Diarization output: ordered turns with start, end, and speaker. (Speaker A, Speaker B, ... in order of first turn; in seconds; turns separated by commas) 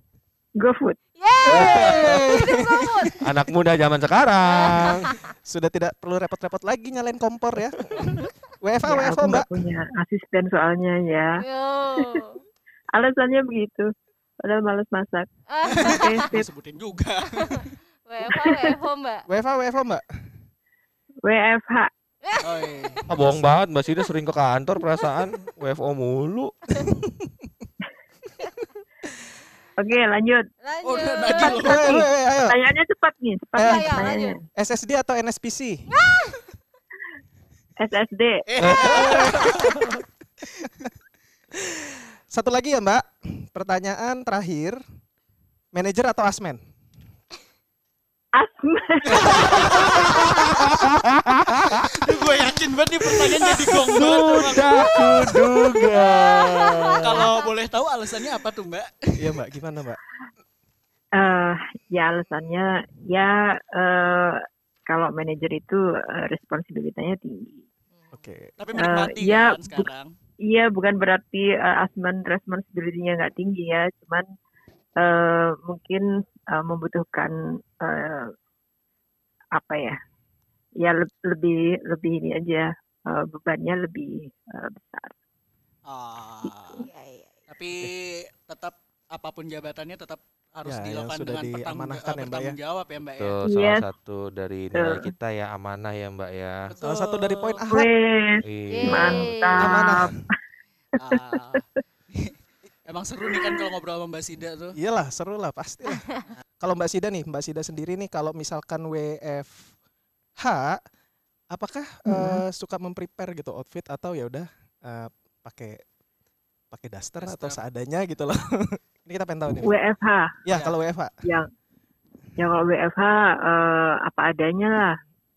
Speaker A: 0.6-1.0, Speaker B: 1.2-3.3, Speaker C: 1.5-3.1, Speaker D: 1.5-2.2, Speaker D: 3.2-5.1, Speaker B: 4.5-5.2, Speaker C: 5.4-9.5, Speaker A: 8.8-11.4, Speaker B: 11.4-12.4, Speaker A: 12.0-12.2, Speaker A: 12.9-13.9, Speaker A: 14.4-16.5, Speaker B: 15.5-16.3, Speaker E: 15.7-17.7, Speaker B: 17.3-19.3, Speaker A: 18.3-18.8, Speaker C: 19.3-20.0, Speaker A: 21.2-21.9, Speaker B: 22.2-22.5, Speaker E: 22.4-23.1, Speaker D: 23.1-26.5, Speaker A: 29.8-30.5, Speaker B: 30.6-32.0, Speaker E: 30.8-32.0, Speaker A: 31.5-34.4, Speaker C: 31.6-32.6, Speaker C: 33.6-35.9, Speaker B: 33.6-34.4, Speaker B: 35.9-36.4, Speaker A: 37.8-39.2, Speaker E: 38.5-39.7, Speaker D: 38.6-40.0, Speaker C: 38.8-40.0, Speaker C: 41.5-44.8, Speaker C: 45.7-46.6, Speaker A: 48.4-50.7, Speaker E: 49.1-49.9, Speaker D: 49.7-52.0, Speaker E: 51.9-55.0, Speaker D: 53.8-57.3, Speaker B: 54.8-57.5, Speaker E: 57.0-59.4, Speaker C: 59.2-60.0, Speaker A: 61.1-67.7, Speaker B: 68.0-68.2, Speaker C: 68.1-68.5, Speaker E: 68.6-70.1, Speaker A: 68.8-69.9, Speaker A: 70.4-74.3, Speaker A: 75.0-78.3, Speaker A: 79.5-80.0, Speaker A: 80.8-85.1, Speaker E: 85.9-86.9, Speaker B: 86.8-87.3, Speaker E: 87.5-93.4, Speaker C: 90.7-92.6, Speaker D: 93.2-96.7, Speaker A: 93.4-93.9, Speaker A: 94.7-95.1, Speaker E: 96.7-97.6, Speaker C: 96.8-97.9, Speaker A: 97.7-100.2, Speaker D: 98.5-99.8, Speaker B: 98.7-100.0, Speaker C: 99.6-100.2, Speaker E: 101.0-102.3, Speaker A: 101.0-101.6, Speaker E: 102.9-104.8, Speaker C: 104.8-109.7, Speaker C: 110.4-110.8, Speaker C: 111.5-115.8, Speaker A: 112.1-112.4, Speaker C: 116.7-119.7, Speaker E: 117.2-117.6, Speaker A: 119.6-120.4, Speaker C: 120.5-121.2, Speaker E: 120.5-120.8, Speaker A: 121.2-121.5, Speaker A: 122.4-125.0